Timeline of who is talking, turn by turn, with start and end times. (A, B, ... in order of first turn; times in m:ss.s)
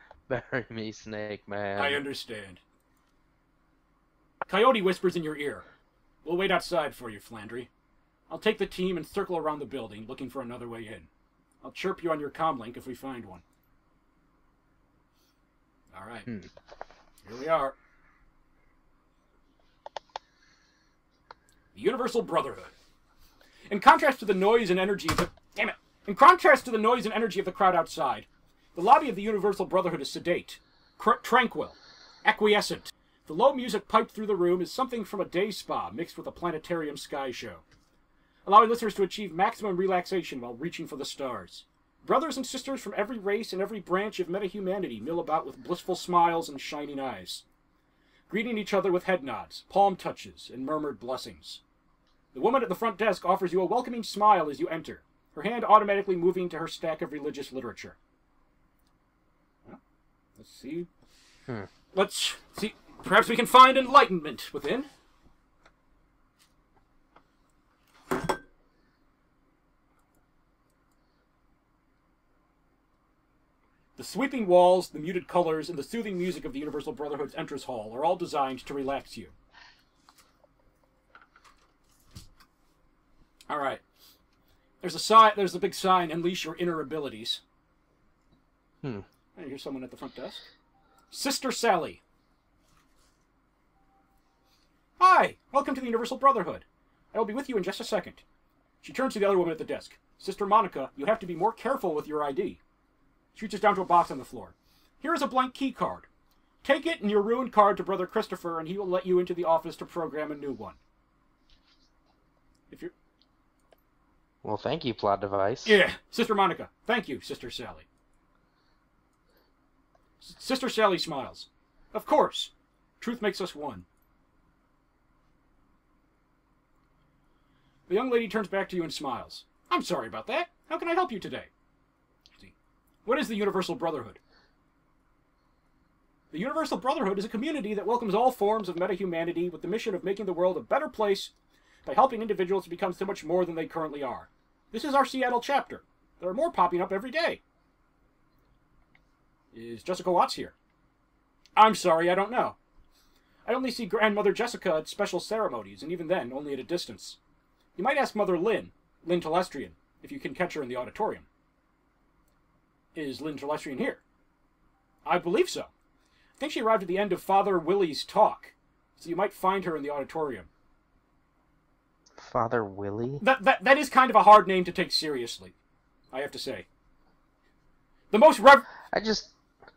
0:00.3-0:02.0 A
0:01.8-0:02.6 B
0:04.5-0:05.6 B
0:06.2-0:07.7 B
0:08.3-0:11.1 B
0:11.6-0:13.4 B
0:15.9-0:16.3 B
0:17.2-0:17.8 B
0:21.8-0:22.7 B
0:23.7-0:37.6 B
0:38.5-0:47.4 B
0:48.3-0:51.6 B
0:52.3-0:58.0 B
1:00.4-1:00.9 B
1:01.9-1:04.9 B
1:14.0-1:19.3 B
1:23.5-1:23.8 B
1:24.8-1:27.4 B
1:29.4-1:30.4 B
1:31.1-1:32.0 B
1:35.0-1:38.2 B
1:38.8-1:42.6 B
1:43.4-1:46.1 B
1:46.6-1:50.8 B
1:54.4-1:55.8 A
1:55.6-1:57.9 B
2:00.2-2:03.8 B
2:07.9-2:11.5 B
2:13.0-2:14.2 B
2:16.3-2:21.3 B
2:21.8-2:27.4 B
2:29.5-2:30.5 B
2:31.6-2:32.6 B
2:33.5-2:37.2 B
2:37.8-2:41.3 B
2:43.0-2:44.0 B
2:45.0-2:45.7 B
2:46.4-2:50.5 B
2:52.2-2:53.2 A
2:53.2-2:55.6 B
2:56.1-2:56.7 B
2:58.1-2:58.6 B
2:58.9-2:59.4 A